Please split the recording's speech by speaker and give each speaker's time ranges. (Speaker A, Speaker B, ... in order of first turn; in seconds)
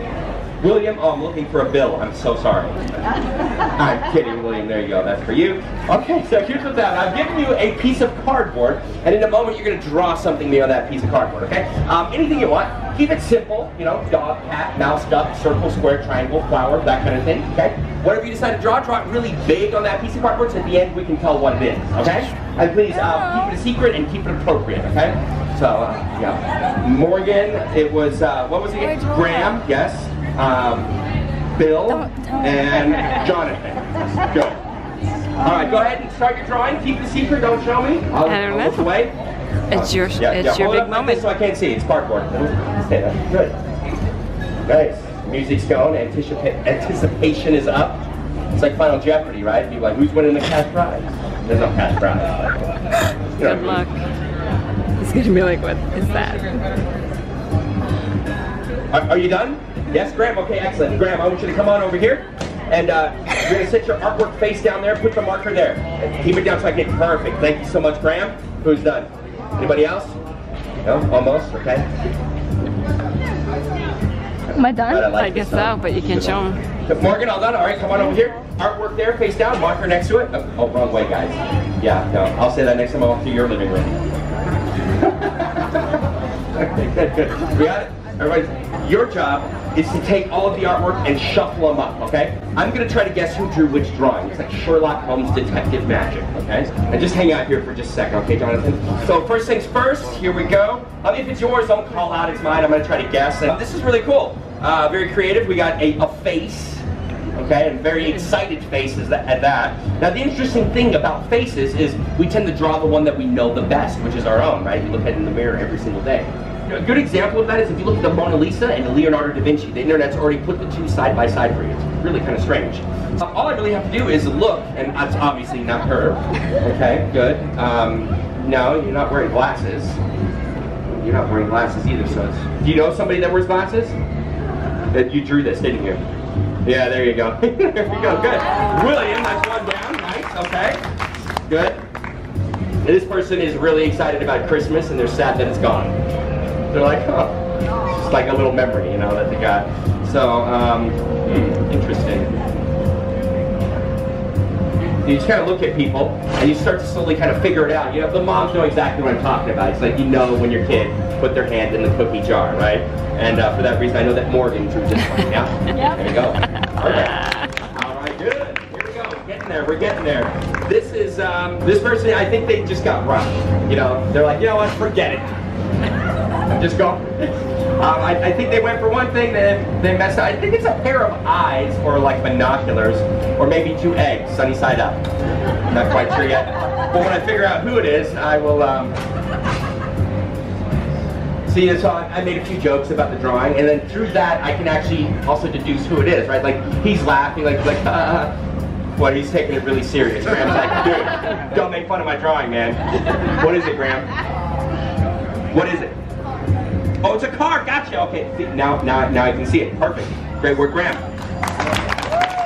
Speaker A: 0.6-3.0, 3.8-30.9, 31.6-34.6, 35.4-39.1, 39.7-43.6, 44.7-52.3, 53.4-53.9, 58.9-70.2, 70.8-71.9, 74.9-84.0, 85.0-86.0, 86.6-130.0, 130.9-134.0, 134.9-136.0, 136.7-140.8, 141.5-141.8, 142.8-146.0, 146.7-147.4, 147.9-152.3, 155.0-175.4, 176.5-185.0, 185.7-189.0, 191.5-198.3, 199.0-204.1, 205.5-206.0, 207.0-211.1
Speaker B: 22.9-23.6, 31.9-33.1, 74.5-75.1
Speaker C: 38.2-38.9, 39.7-41.3, 53.4-54.0, 55.0-56.6, 75.1-76.6